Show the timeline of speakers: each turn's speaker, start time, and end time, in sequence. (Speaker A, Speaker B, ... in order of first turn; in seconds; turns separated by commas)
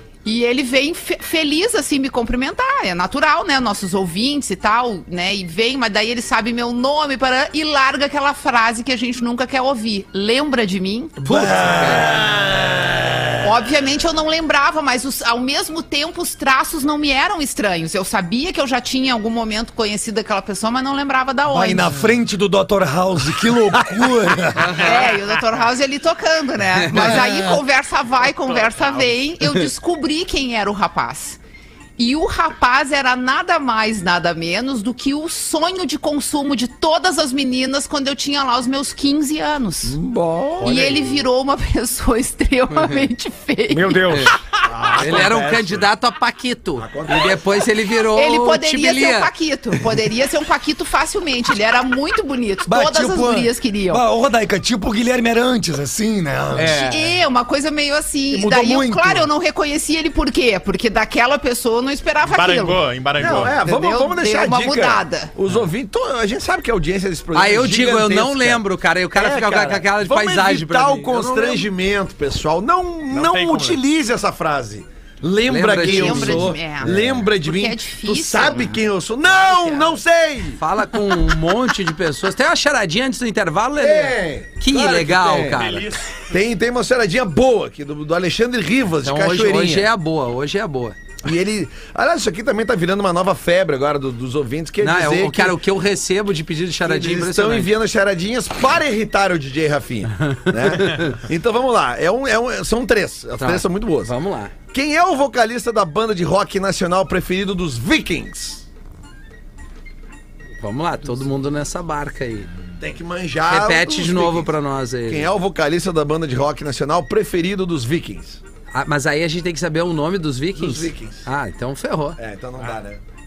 Speaker A: 0.2-11.4, Speaker B: 11.2-12.1, Speaker C: 11.3-13.7, Speaker A: 13.4-22.2, Speaker D: 21.5-24.8, Speaker C: 23.7-24.1, Speaker B: 24.6-25.0, Speaker A: 24.8-31.4, Speaker B: 26.7-27.5, Speaker E: 28.4-29.1, Speaker A: 32.0-40.0, Speaker C: 39.8-40.9, Speaker A: 40.6-44.2, Speaker D: 43.7-44.4, Speaker B: 44.1-44.3, Speaker C: 44.6-45.9, Speaker B: 45.0-49.3, Speaker C: 46.8-47.6, Speaker A: 48.1-54.1, Speaker D: 52.6-56.9, Speaker B: 56.5-57.1, Speaker A: 56.7-62.8, Speaker D: 58.3-59.3, Speaker E: 62.2-63.6, Speaker C: 63.2-68.6, Speaker A: 63.3-65.3, Speaker B: 67.3-71.7, Speaker C: 69.1-80.6, Speaker E: 73.1-73.8, Speaker B: 75.5-77.1, Speaker A: 75.8-78.8, Speaker A: 79.4-79.8, Speaker B: 80.6-85.9, Speaker C: 83.8-85.6, Speaker E: 85.5-86.3, Speaker C: 86.3-89.9, Speaker B: 89.0-91.0, Speaker C: 91.2-95.6, Speaker B: 94.8-97.7, Speaker C: 96.8-104.1, Speaker B: 100.2-101.2, Speaker B: 103.4-104.5, Speaker C: 104.7-108.6, Speaker B: 110.6-112.5, Speaker C: 112.8-114.5, Speaker B: 113.5-115.3, Speaker C: 115.0-118.4, Speaker B: 118.7-122.2, Speaker C: 120.5-121.3, Speaker C: 122.2-123.0